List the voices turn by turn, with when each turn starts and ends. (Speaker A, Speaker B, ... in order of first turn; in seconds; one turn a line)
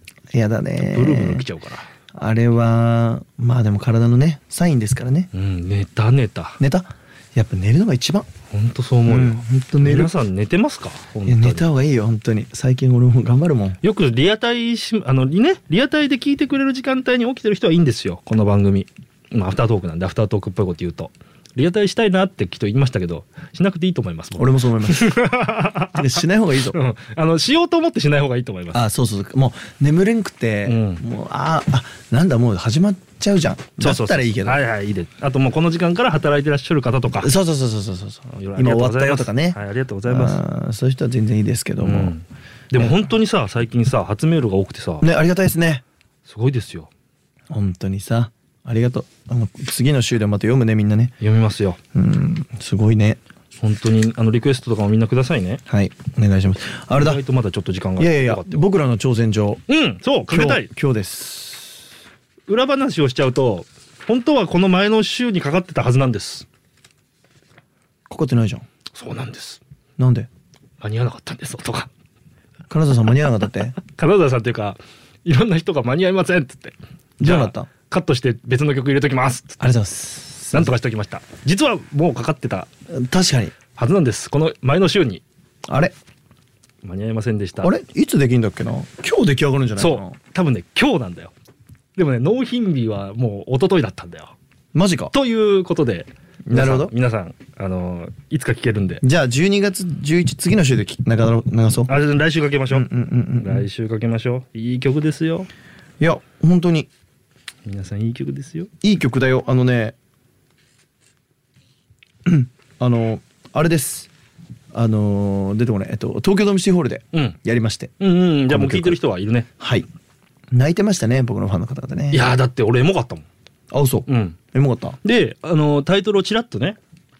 Speaker A: 0.3-1.5
Speaker B: 0.8-1.9
Speaker A: 2.1-5.3
Speaker B: 5.3-6.6
Speaker A: 6.6-8.3
Speaker B: 8.5-11.7
Speaker A: 9.1-10.1
Speaker A: 11.2-13.8
Speaker B: 13.8-28.8
Speaker A: 24.4-25.2
Speaker A: 25.9-26.8
Speaker A: 28.7-34.6
Speaker B: 30.6-31.0
Speaker B: 33.8-37.3
Speaker A: 37.1-42.1
Speaker B: 38.3-40.4
Speaker B: 41.8-45.1
Speaker A: 42.8-43.0
Speaker A: 45.0-45.8
Speaker B: 46.2-46.9
Speaker A: 47.5-51.1
Speaker B: 51.2-51.8
Speaker A: 51.9-53.2
Speaker B: 53.6-55.6
Speaker A: 55.7-57.2
Speaker B: 56.9-58.6
Speaker A: 58.0-59.6
Speaker B: 59.7-60.7
Speaker A: 60.3-61.8
Speaker B: 62.5-66.5
Speaker A: 68.1-68.6
Speaker B: 68.9-69.6
Speaker A: 70.0-70.3
Speaker B: 70.8-71.9
Speaker A: 72.7-73.8
Speaker B: 73.8-79.6
Speaker A: 77.2-77.7
Speaker A: 79.6-80.7
Speaker B: 80.5-82.7
Speaker A: 82.9-83.5
Speaker B: 83.7-85.2
Speaker A: 85.7-85.9
Speaker B: 86.8-87.7
Speaker A: 87.6-90.2
Speaker B: 89.8-91.3
Speaker B: 92.0-94.3
Speaker A: 94.7-95.1
Speaker B: 95.1-99.0
Speaker A: 96.5-96.9
Speaker A: 99.0-102.0
Speaker B: 101.9-105.5
Speaker A: 102.7-103.7
Speaker A: 106.0-106.9
Speaker B: 107.7-108.7
Speaker A: 108.8-110.0
Speaker A: 112.2-114.1
Speaker A: 114.7-117.9
Speaker B: 118.0-119.5
Speaker A: 118.5-119.0
Speaker A: 119.6-119.9
Speaker A: 120.5-122.4
Speaker B: 122.1-123.2
Speaker A: 123.7-125.0
Speaker B: 124.1-124.4
Speaker B: 125.0-126.8